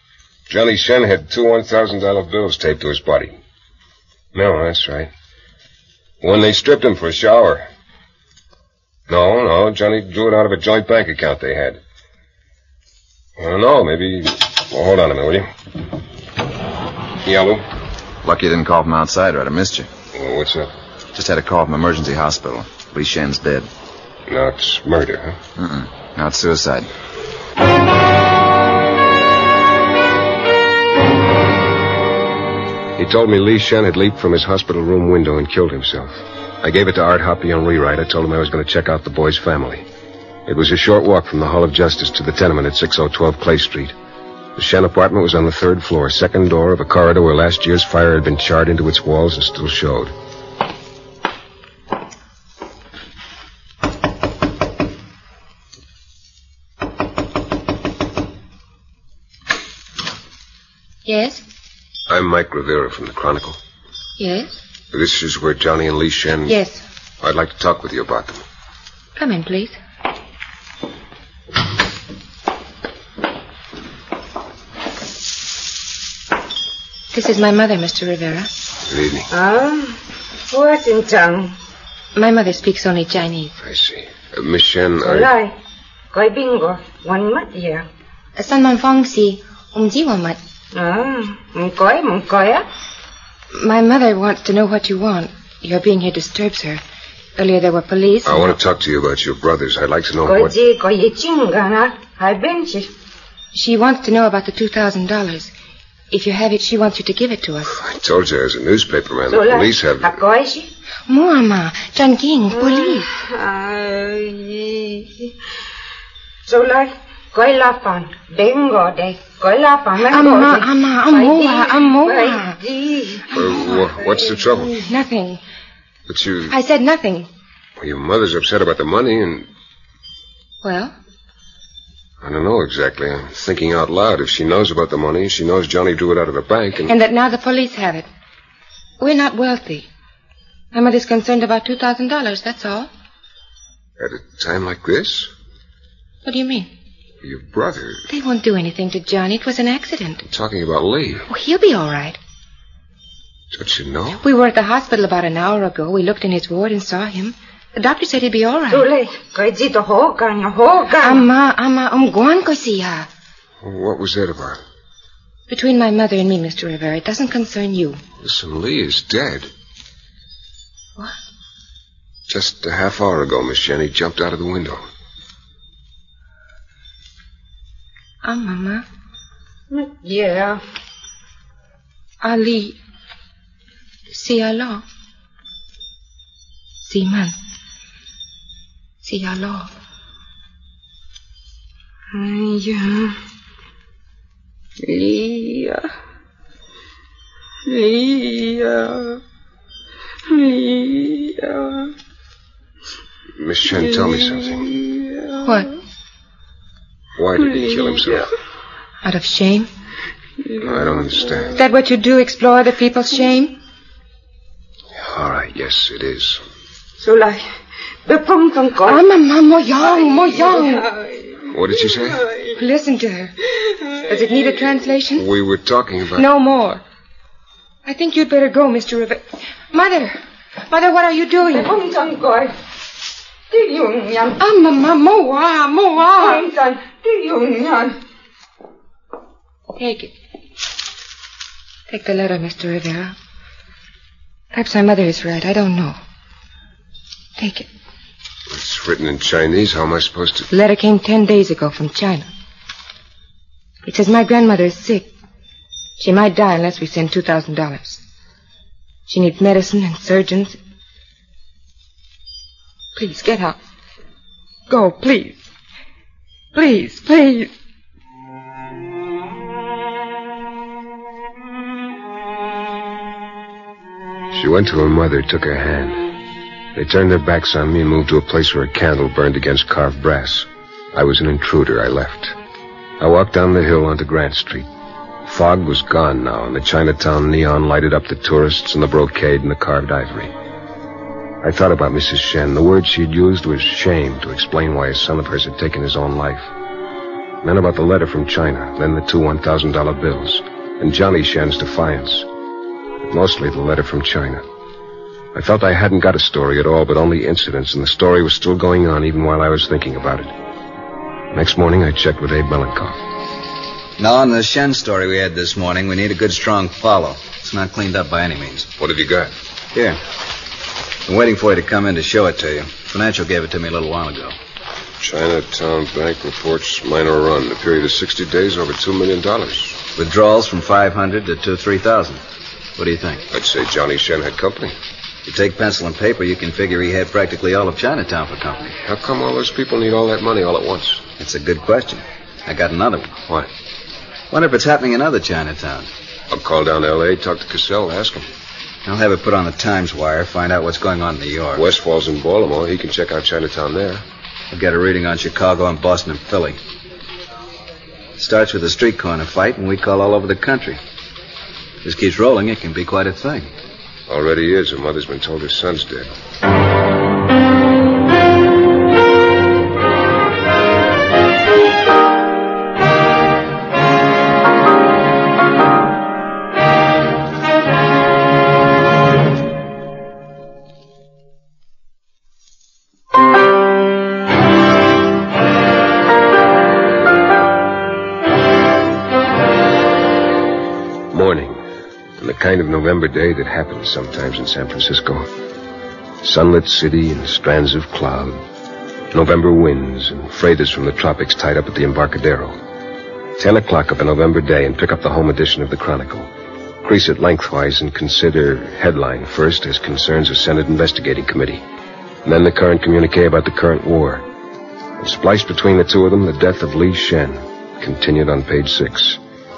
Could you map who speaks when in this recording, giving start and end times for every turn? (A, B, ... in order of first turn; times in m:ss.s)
0:00.5-0:03.4 A
0:04.3-0:05.1 A
0:06.2-0:07.7 A
0:09.1-0:11.8 A
0:13.4-0:15.5 A
0:17.2-0:17.6 A
0:18.2-0:19.9 B
0:20.2-0:20.7 A
0:21.2-0:23.7 B
0:24.3-0:25.4 A
0:25.6-0:26.9 B
0:33.0-0:39.9 A
0:40.5-0:44.0 A
0:44.6-0:50.1 A
1:01.1-1:01.4 C
1:02.1-1:03.6 A
1:04.2-1:04.6 C
1:04.9-1:06.6 A
1:06.5-1:06.8 C
1:07.2-1:08.4 A
1:09.2-1:09.8 C
1:17.1-1:18.5 C
1:18.9-1:19.3 A
1:19.3-1:21.5 D
1:22.2-1:23.5 C
1:23.6-1:25.3 A
1:25.0-1:25.6 D
1:26.1-1:27.9 D
1:28.4-1:30.4 C
1:30.7-1:32.6 D
1:33.5-1:36.8 C
1:37.4-1:38.6 C
1:38.2-1:40.6 A
1:40.2-1:42.9 D
1:43.5-1:45.5 C
1:46.1-1:47.8 C
1:47.7-1:50.2 A
1:49.3-1:50.7 D
1:51.1-1:53.1 C
1:52.6-1:55.3 D
1:56.5-2:03.3 D
2:00.1-2:02.6 C
2:03.3-2:03.9 C
2:03.3-2:04.8 A
2:04.7-2:05.4 C
2:06.1-2:06.6 A
2:06.5-2:07.3 C
2:07.8-2:09.5 A
2:10.6-2:10.9 C
2:12.2-2:16.9 A
2:16.9-2:18.1 C
2:19.0-2:19.9 C
2:20.7-2:22.9 C
2:24.0-2:25.3 A
2:26.2-2:26.7 C
2:27.2-2:28.0 A
2:28.1-2:30.2 C
2:30.3-2:31.3 A
2:31.3-2:32.2 C
2:33.5-2:34.2 A
2:34.2-2:38.9 C
2:38.7-2:41.3 D
2:41.0-2:43.1 C
2:43.6-2:44.6 A
2:45.5-2:48.0 C
2:48.2-2:49.5 A
2:52.3-2:54.8 A
2:58.2-2:58.8 C
2:59.7-3:00.6 D
3:02.2-3:02.8 C
3:04.1-3:04.8 C
3:06.9-3:07.4 C
3:09.0-3:09.7 C
3:12.1-3:13.2 D
3:14.8-3:15.9 D
3:17.7-3:19.2 D
3:20.3-3:21.9 D
3:23.4-3:24.6 A
3:23.7-3:25.6 D
3:25.4-3:25.7 C
3:27.2-3:28.3 A
3:27.4-3:28.3 D
3:29.0-3:29.7 C
3:30.5-3:31.5 D
3:30.6-3:31.6 A
3:31.6-3:33.6 C
3:35.0-3:36.4 A
3:37.0-3:37.5 D
3:38.0-3:39.1 D
3:38.8-3:40.9 C
3:39.9-3:42.6 D
3:41.5-3:42.3 A
3:42.6-3:43.3 C
3:44.1-3:45.3 C
3:45.2-3:46.3 A
3:46.2-3:46.8 C
3:47.9-3:50.2 C
3:50.7-3:51.8 C
3:51.5-3:52.6 D
3:53.5-3:54.4 D
3:54.4-3:56.5 C
3:56.1-3:58.0 D
3:59.8-4:00.1 C
4:01.9-4:03.2 C
4:04.5-4:06.0 C
4:07.4-4:07.7 C
4:08.5-4:10.5 A
4:10.5-4:12.3 C
4:13.8-4:15.1 C
4:16.0-4:18.0 C
4:19.1-4:20.6 C
4:23.0-4:23.6 C
4:24.7-4:25.4 C
4:26.5-4:27.5 C
4:34.3-4:36.1 A
4:36.8-4:42.4 A
4:43.0-4:44.7 A
4:45.3-4:50.3 A
4:51.4-4:56.5 A
4:57.4-5:02.3 A
5:03.0-5:04.4 A
5:05.3-5:10.3 A
5:11.3-5:13.0 A
5:14.0-5:18.7 E
5:18.8-5:19.3 A
5:19.7-5:20.0 E
5:21.1-5:24.4 E
5:25.0-5:29.8 A
5:30.0-5:32.2 E
5:32.8-5:33.2 E
5:33.3-5:34.8 A
5:35.3-5:38.7 E
5:38.8-5:41.0 A
5:41.2-5:43.2 E
5:44.3-5:45.9 E
5:46.3-5:48.3 A
5:48.8-5:51.6 E
5:51.6-5:54.0 A
5:54.5-5:56.6 E
5:58.2-6:00.8 E
6:01.8-6:03.5 E
6:04.1-6:06.1 A
6:31.1-6:31.6 A
6:32.2-6:35.3 A
6:36.2-6:38.4 A
6:39.1-6:42.6 A
6:43.4-6:46.3 A
6:46.8-6:51.6 A
6:52.2-6:54.2 A
6:55.0-6:59.2 A